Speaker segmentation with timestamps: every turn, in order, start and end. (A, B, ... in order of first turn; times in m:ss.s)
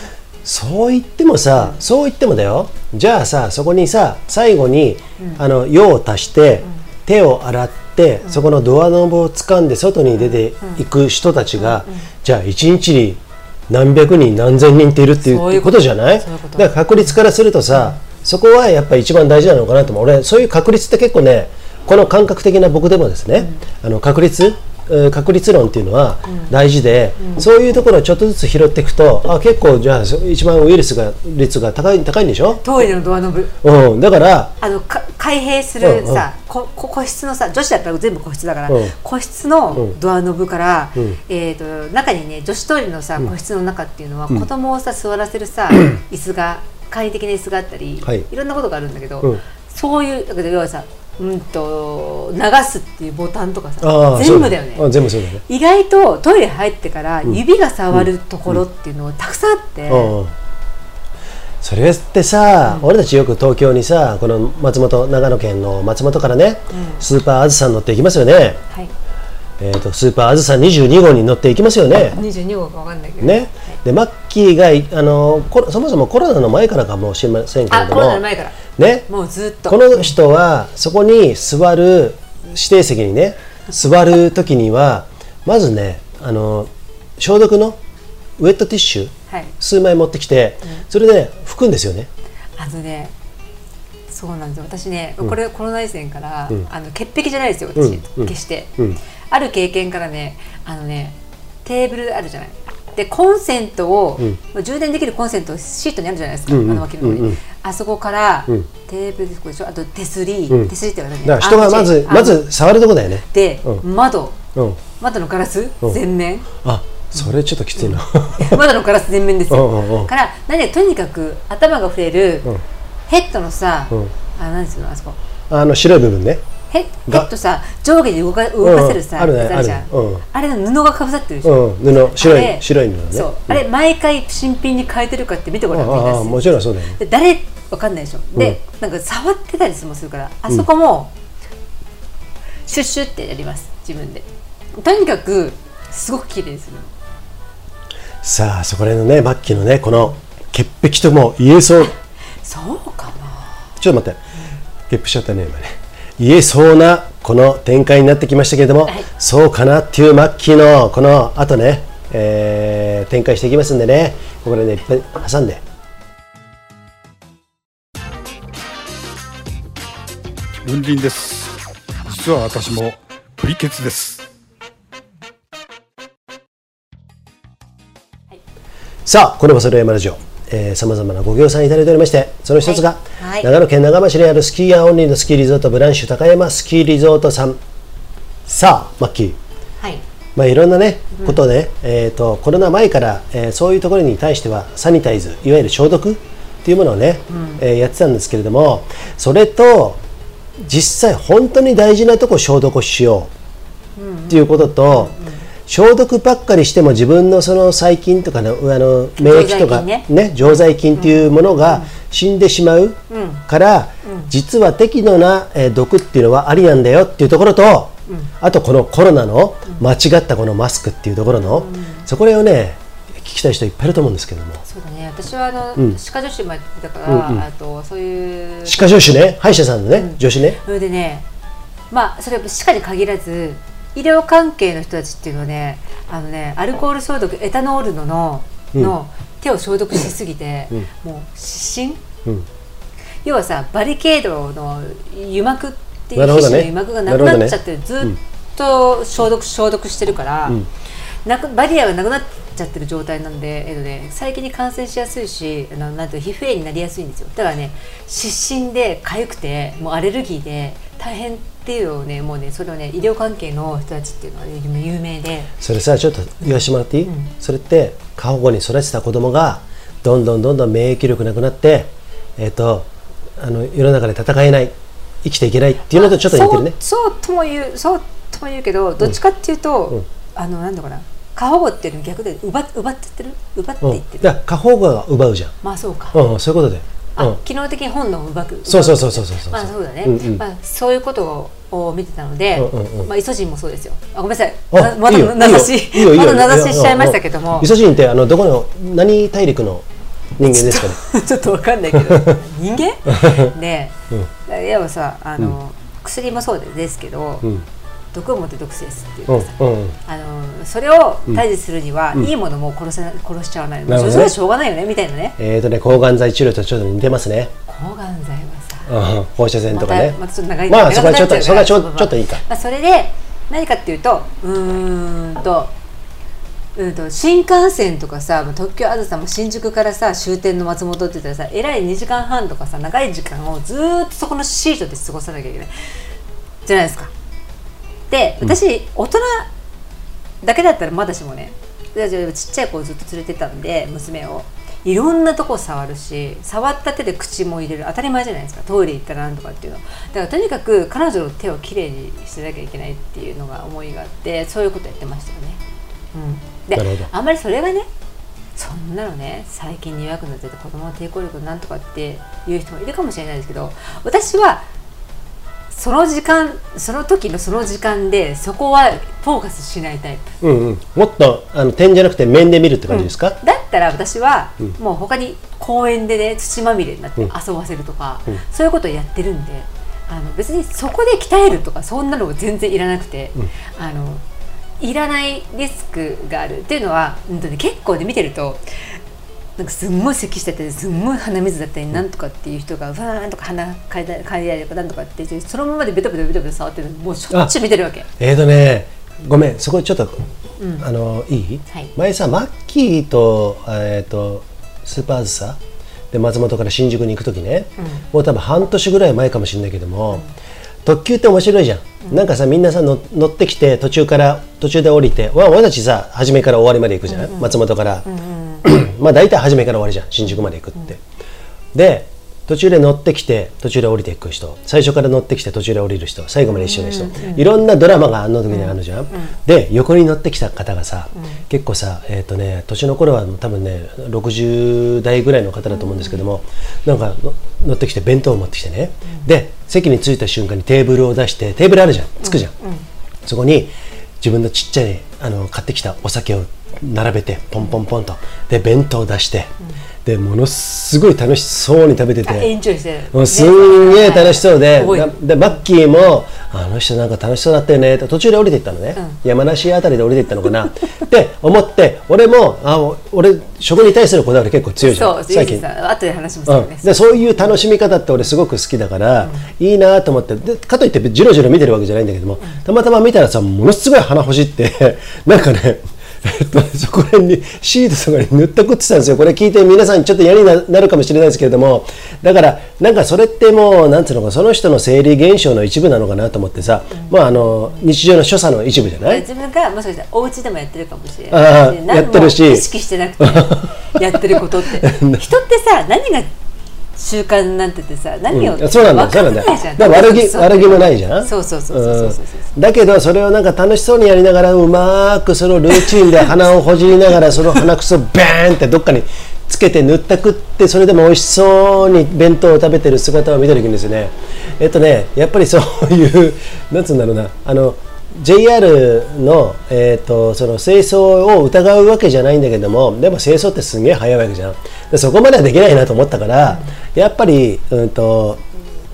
0:00.4-0:32.6 A
0:10.2-0:10.8 B
0:11.6-0:12.1 B
0:15.2-0:17.2 B
0:23.4-0:23.6 B
0:26.2-0:26.5 B
0:32.6-0:33.6 B
0:33.6-0:34.5 A
0:34.6-0:54.9 B
0:35.8-0:36.2 A
0:38.7-0:38.9 A
0:53.8-0:55.4 A
0:55.5-1:00.2 B
0:57.9-0:58.6 A
0:59.9-1:00.4 A
1:01.6-1:08.6 A
1:06.7-1:07.0 B
1:09.6-1:12.2 A
1:12.1-1:13.8 B
1:13.2-1:19.1 A
1:17.7-1:20.1 B
1:19.7-1:27.8 A
1:28.4-1:32.1 A
1:32.6-1:33.1 B
1:34.1-1:38.8 B
1:37.8-1:39.0 A
1:39.3-1:52.5 B
1:46.5-1:47.4 A
1:51.2-1:53.8 A
1:53.3-1:54.4 B
1:54.6-1:54.8 A
1:55.0-1:56.5 B
1:56.6-1:58.6 A
1:57.2-2:02.5 B
1:59.5-2:00.1 A
2:03.1-2:05.2 B
2:05.5-2:06.4 A
2:06.7-2:21.1 B
2:08.6-2:10.2 A
2:11.4-2:13.6 A
2:15.7-2:17.0 A
2:22.7-2:26.9 B
2:28.2-2:31.9 A
2:32.4-2:33.6 B
2:33.8-2:34.2 A
2:34.9-2:45.6 A
2:50.6-2:54.2 C
2:59.1-3:07.6 A
3:02.6-3:03.5 B
3:08.5-3:09.4 A
3:10.4-3:20.0 A
3:17.3-3:17.6 B
3:20.6-3:23.3 A
3:24.0-3:25.4 B
3:24.3-3:25.2 A
3:25.7-3:44.6 A
3:29.2-3:30.1 B
3:30.9-3:31.9 B
3:33.1-3:33.4 B
3:34.0-3:34.3 B
3:41.5-3:42.0 B
3:44.6-3:49.1 B
3:47.0-3:47.4 A
3:48.7-3:50.6 A
3:49.9-3:51.2 B
3:51.9-4:02.0 B
4:03.2-4:10.6 B
4:06.2-4:08.2 A
4:11.2-4:25.5 B
4:25.6-4:36.8 A
4:27.0-4:27.3 B
4:35.9-4:44.3 B
4:43.8-4:45.6 A
4:45.6-4:46.2 B
4:46.1-4:47.4 A
4:47.2-4:57.7 B
4:48.7-4:50.4 A
4:52.5-4:53.1 A
4:54.7-4:59.9 A
5:00.4-5:01.0 A
5:00.5-5:04.0 B
5:02.0-5:02.3 A
5:03.1-5:03.5 A
5:04.5-5:07.5 B
5:08.1-5:15.4 B
5:09.3-5:10.0 A
5:13.9-5:14.4 A
5:15.4-5:17.5 A
5:17.7-5:18.9 B
5:18.9-5:20.2 A
5:19.7-5:25.7 B
5:20.7-5:22.4 A
5:26.8-5:35.7 B
5:36.7-5:37.1 B
5:38.1-5:39.5 B
5:40.4-5:55.6 B
5:56.1-5:57.9 B
5:56.8-5:57.1 A
5:58.6-6:04.7 B
6:05.7-6:10.4 B
6:10.4-6:13.4 A
6:12.9-6:24.2 B
6:24.8-6:29.0 B
6:29.6-6:38.1 B
6:38.2-6:40.2 A
6:40.6-6:40.9 B
6:40.8-6:45.6 A
6:46.1-6:50.2 A
6:47.8-6:48.0 B
6:50.8-6:58.1 A
6:57.1-6:58.6 B
6:58.6-7:01.0 A
7:01.7-7:22.5 A
7:06.5-7:07.5 B
7:08.5-7:09.4 B
7:11.2-7:11.4 B
7:15.7-7:16.2 B
7:22.2-7:22.9 B
7:23.2-7:29.5 A
7:30.0-7:32.5 A
7:32.2-7:35.2 B
7:33.1-7:45.6 A
7:44.8-7:47.6 B
7:46.5-8:09.2 A
8:06.9-8:07.8 B
8:09.0-8:16.3 B
8:11.3-8:12.7 A
8:13.2-8:15.2 A
8:17.0-8:22.5 B
8:18.3-8:48.4 A